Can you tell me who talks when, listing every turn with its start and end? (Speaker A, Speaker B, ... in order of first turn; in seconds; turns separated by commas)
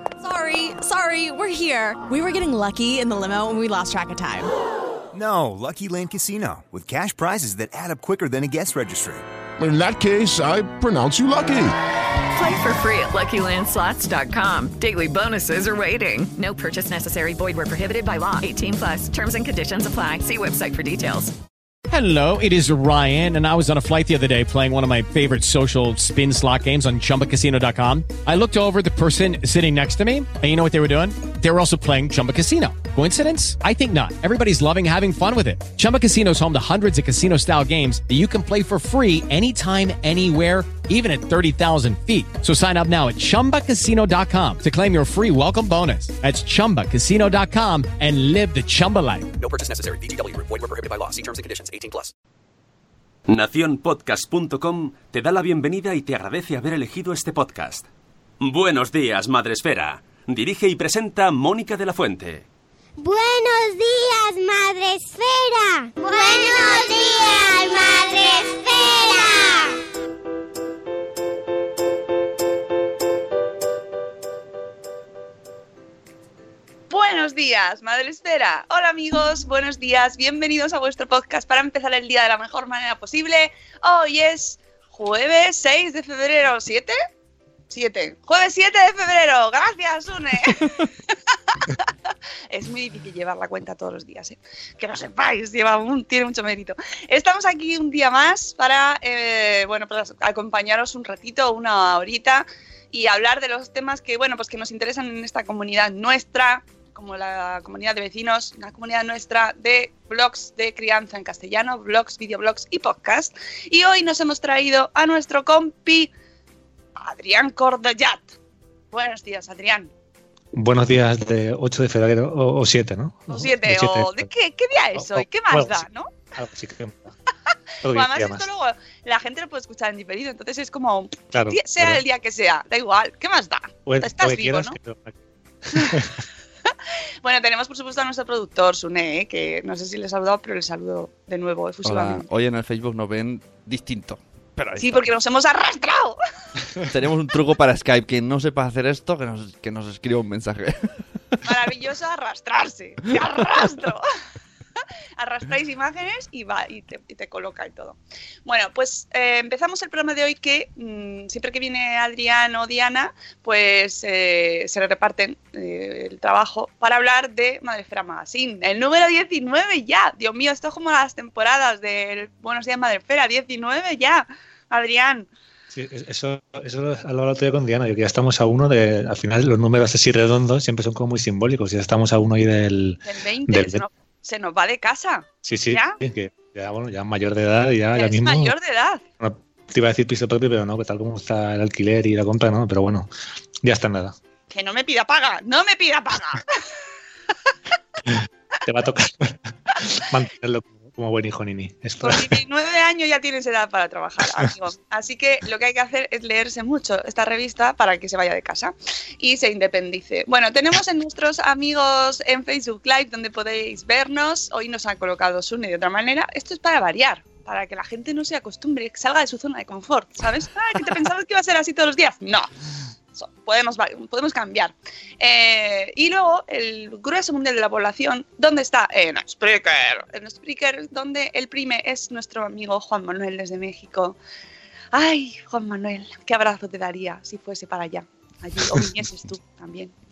Speaker A: 0.2-4.5, Speaker B: 5.1-9.2, Speaker C: 9.6-11.7, Speaker D: 12.3-21.3, Speaker E: 21.9-49.3, Speaker F: 49.4-52.1, Speaker G: 53.3-57.9, Speaker G: 58.4-62.5, Speaker H: 63.0-69.7, Speaker I: 76.9-86.9, Speaker I: 87.7-90.9, Speaker I: 91.5-91.9, Speaker I: 92.5-116.1, Speaker I: 117.0-118.3, Speaker I: 118.9-119.9, Speaker J: 120.5-124.3, Speaker I: 123.3-126.1, Speaker J: 124.9-127.1, Speaker J: 127.8-128.4, Speaker I: 127.9-134.8, Speaker J: 131.3-132.0, Speaker J: 133.8-136.2, Speaker I: 135.7-136.1, Speaker I: 137.2-142.2, Speaker K: 141.8-145.1, Speaker I: 144.8-146.2, Speaker K: 146.8-151.0, Speaker I: 151.4-154.1, Speaker I: 155.2-175.3, Speaker J: 175.7-183.8, Speaker I: 183.0-186.0, Speaker J: 185.4-188.5, Speaker I: 187.9-189.0, Speaker J: 189.2-193.1, Speaker J: 193.6-194.1, Speaker I: 194.5-196.5, Speaker J: 198.1-202.4, Speaker I: 202.0-222.5, Speaker I: 223.1-234.2, Speaker I: 234.9-239.9